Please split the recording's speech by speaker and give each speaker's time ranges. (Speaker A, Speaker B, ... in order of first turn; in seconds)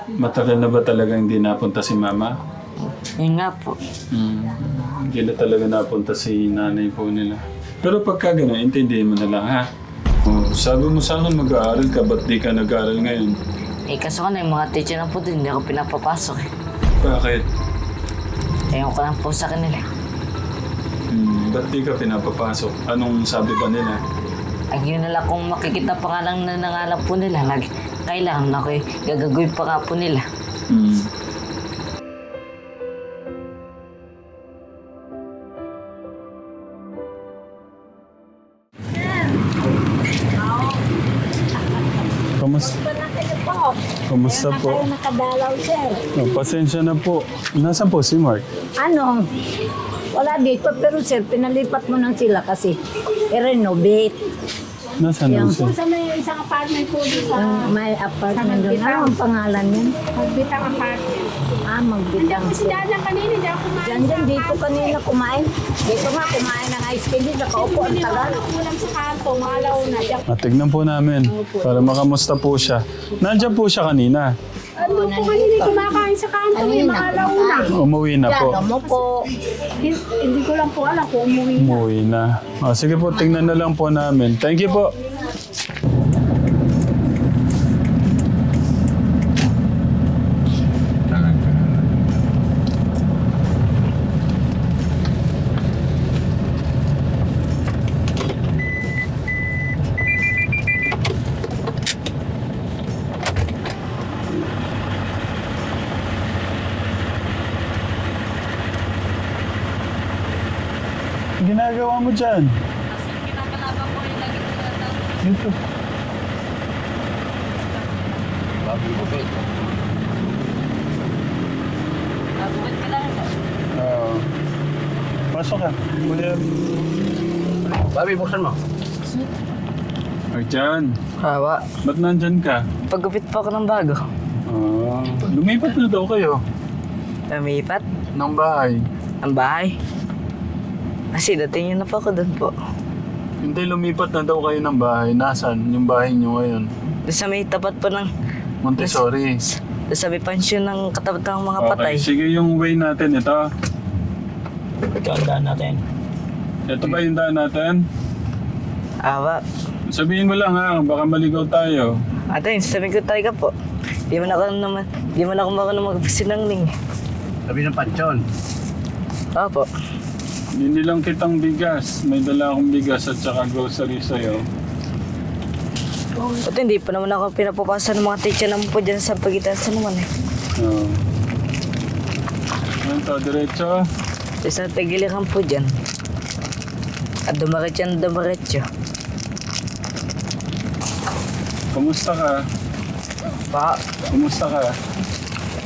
Speaker A: 0.2-2.3, 4.1-9.7, 10.2-13.3, 17.0-17.4, 21.1-24.0, 30.7-31.1, 42.4-42.8, 44.1-44.9, 46.1-48.5, 55.0-55.8, 70.3-74.3, 77.7-78.6, 81.5-84.9, 111.4-112.5, 115.2-115.6, 123.7-124.3, 125.3-126.5, 130.3-130.9, 131.8-132.6, 134.5-136.4, 138.1-138.8, 143.4-146.7, 148.6-149.4, 151.6-153.5, 156.7-157.8, 159.9-161.9, 170.5-174.4, 180.6-181.0, 182.8-183.8, 191.7-192.4, 194.1-194.7
Speaker B: 3.0-3.8, 13.9-16.5, 18.7-19.8, 24.7-30.2, 112.9-115.0, 122.4-123.3, 131.2-131.6, 132.9-134.0, 137.3-137.8, 139.2-139.8, 141.1-142.5, 147.1-148.1, 148.8-149.0, 149.9-152.1, 155.0-155.8, 159.0-159.4, 162.3-163.5, 164.1-166.7, 169.3-169.7, 176.2-180.1, 184.4-185.7, 187.3-188.7, 193.5-193.8
Speaker C: 42.9-43.7, 45.0-46.0, 48.8-49.3, 50.1-54.2, 55.3-55.6, 57.4-60.0, 61.7-62.8, 63.8-68.4, 74.9-76.0, 76.5-77.7, 78.3-79.3
Speaker D: 44.5-44.8, 55.6-57.7, 58.3-59.1, 60.0-61.3, 62.2-65.0, 67.5-70.2, 74.8-77.7, 79.8-81.8
Speaker E: 118.6-119.4, 127.8-128.6, 167.5-168.2